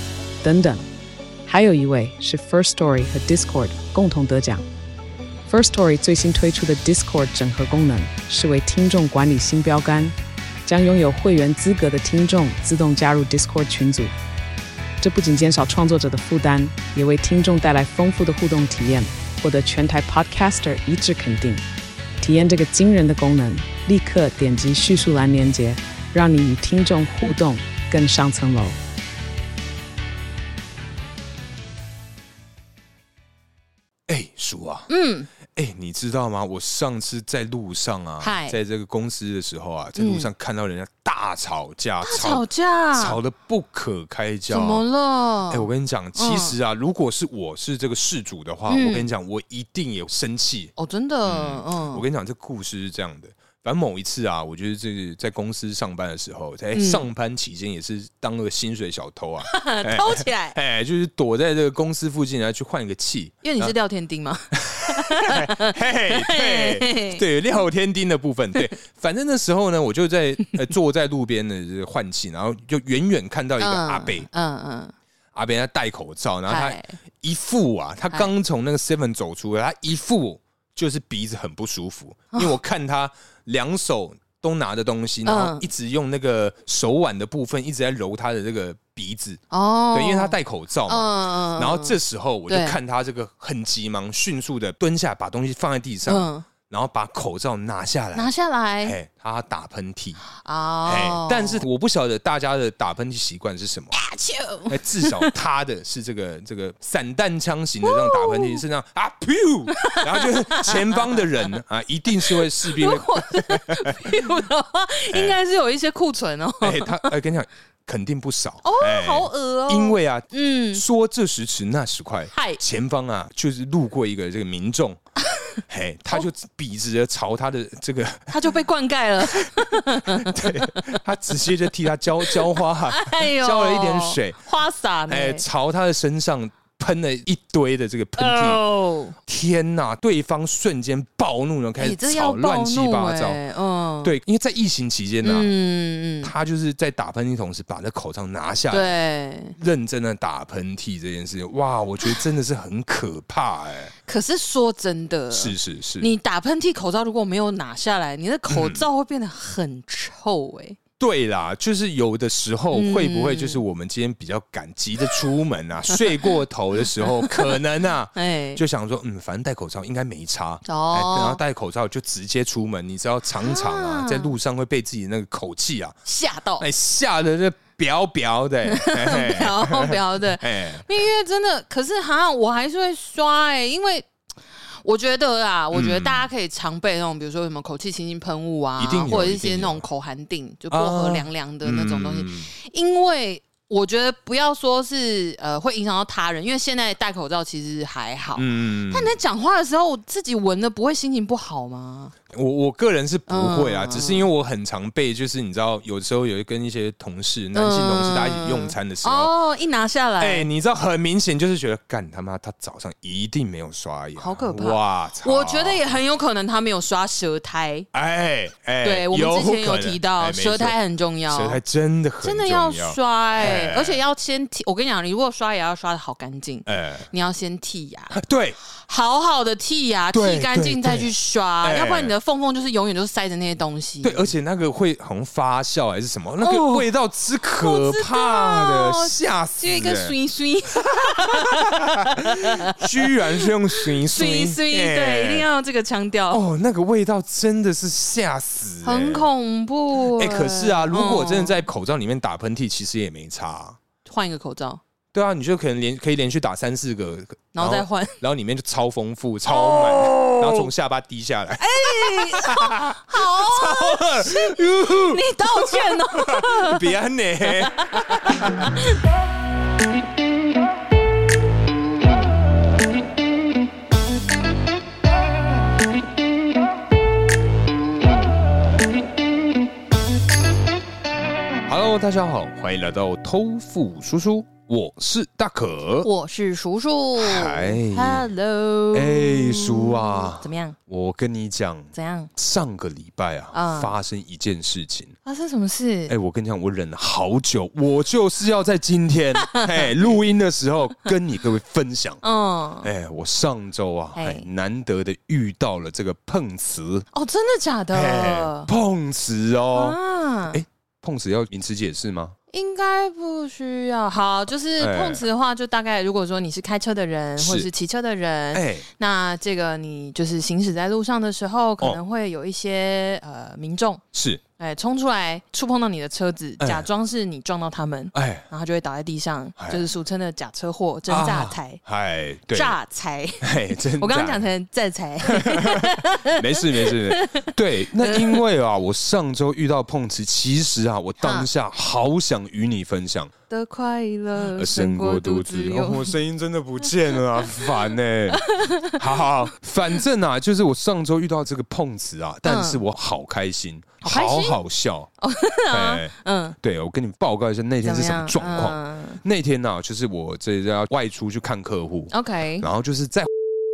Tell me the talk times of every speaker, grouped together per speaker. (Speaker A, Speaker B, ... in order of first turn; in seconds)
Speaker A: 0.4-0.8, 1.4-4.6, 5.5-10.1, 10.7-14.1, 15.0-21.6, 22.2-28.8
Speaker B: 34.1-34.9, 35.5-42.4, 43.0-44.8, 45.5-50.7, 51.2-63.7, 64.5-74.3, 75.3-89.4, 89.9-98.3, 98.8-100.2, 100.8-104.0, 104.7-114.2, 115.1-115.4, 116.6-125.0, 125.7-128.3, 129.2-134.4, 135.1-138.6, 139.2-143.4, 144.0-145.5, 146.2-148.9, 149.6-153.9, 155.3-156.1, 158.5-158.8, 161.0-176.0, 176.6-180.8, 185.7-186.3, 188.8-189.8, 190.7-192.5, 198.4-199.1, 202.3-209.3, 210.2-215.8, 217.9-220.8, 221.3-224.0, 226.7-227.1, 228.1-228.6, 230.1-231.1, 231.6-232.1, 234.0-240.1, 241.2-245.5, 246.3-249.3, 250.1-253.8, 255.1-268.7, 281.6-286.1, 287.2-288.3, 288.9-295.2, 296.1-302.2, 302.8-307.1, 307.9-310.0, 310.5-312.4, 314.8-315.2, 317.4-317.7, 318.5-318.8, 324.1-324.4, 326.6-326.9, 328.1-328.4, 329.6-329.9, 331.1-332.8, 333.4-334.5, 335.2-343.3, 344.5-355.1, 355.7-363.3
Speaker C: 34.9-35.3, 38.2-38.6, 40.0-40.3, 42.0-43.2, 44.5-46.6, 48.7-49.1, 50.8-52.0, 56.7-57.0, 59.4-60.6, 63.4-67.2, 73.6-74.9, 76.5-77.0, 85.2-85.7, 89.5-90.3, 90.9-92.8, 96.0-96.5, 98.1-99.0, 100.4-101.6, 103.9-105.3, 107.8-108.6, 109.7-111.3, 112.3-117.1, 118.6-120.8, 122.3-122.6, 128.3-130.8, 132.9-135.4, 138.2-139.1, 141.8-144.1, 145.2-146.3, 148.7-149.6, 154.1-160.8, 162.7-163.6, 167.0-167.5, 168.1-168.6, 170.7-171.4, 173.4-174.3, 176.0-176.7, 178.6-184.1, 184.8-202.1, 203.3-204.3, 207.5-210.5, 214.2-217.9, 218.8-221.6, 222.2-234.3, 236.4-236.9, 237.6-246.4, 248.8-251.6, 254.0-254.8, 257.5-258.2, 259.4-260.7, 261.6-266.9, 267.5-269.0, 286.0-290.8, 291.9-292.3, 293.5-293.9, 295.2-296.1, 302.2-302.9, 304.1-304.4, 307.1-308.7, 309.7-310.6, 312.5-324.0, 324.6-331.8, 332.5-338.4, 341.2-341.5, 343.5-346.1, 348.3-349.0, 352.4-352.8, 354.0-354.6, 355.2-356.6, 357.8-359.2, 362.1-362.7